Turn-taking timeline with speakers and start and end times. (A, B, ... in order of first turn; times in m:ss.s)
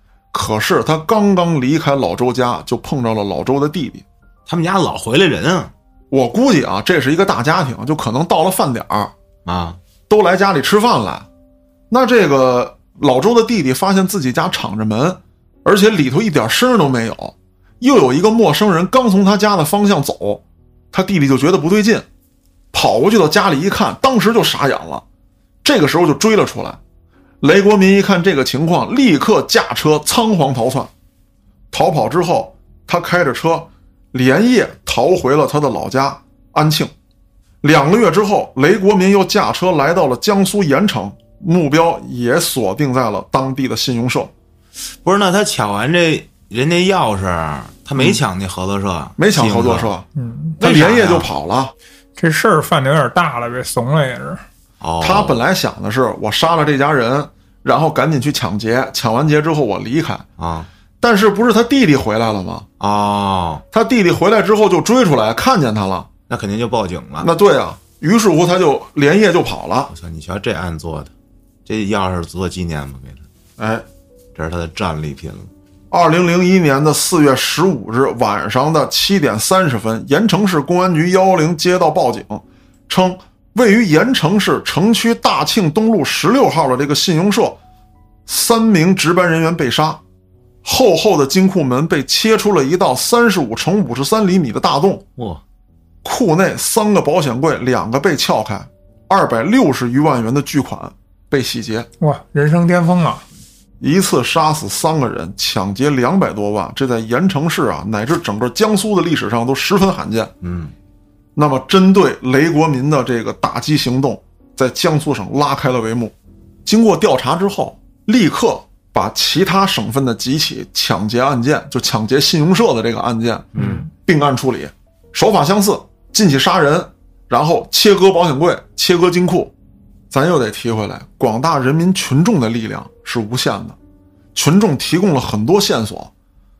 0:00.3-0:04.0 A
0:04.4-0:05.7 B
0:06.1-0:09.1 A
0:09.4-0:09.8 B
0:10.1-0:11.3 A
0:11.9-0:22.0 A
0:22.7-0:25.0 A
0:25.6-0:26.8 A
0:27.4-0:30.9 A
0:31.7-0:36.9 A
0:37.6-0:44.3 A
0:44.9-0:49.9 B
0:49.2-0:50.0 A
0:50.2-0:50.6 C
0:50.6-0:51.7 A
0:50.6-0:51.3 B
0:52.2-0:54.4 C
0:54.8-0:55.4 B
0:55.0-1:00.2 A
1:00.4-1:00.7 B
1:01.0-1:02.7 A
1:02.8-1:03.6 B
1:03.7-1:06.1 A
1:06.3-1:07.3 B
1:07.2-1:09.9 A
1:09.9-1:11.1 B
1:11.6-1:13.2 B
1:13.6-1:13.8 A
1:14.3-1:15.5 B
1:15.9-1:27.6 A
1:28.3-1:30.0 A
1:30.6-1:35.0 A
1:35.2-1:35.4 B
1:36.0-1:41.9 A
1:42.0-1:43.2 C
1:43.8-1:50.3 A
1:50.4-1:50.7 B
1:51.4-1:56.1 A
1:56.6-2:09.5 A
2:03.5-2:03.8 B
2:03.5-2:03.9 C
2:10.1-2:13.8 A
2:14.3-2:16.1 A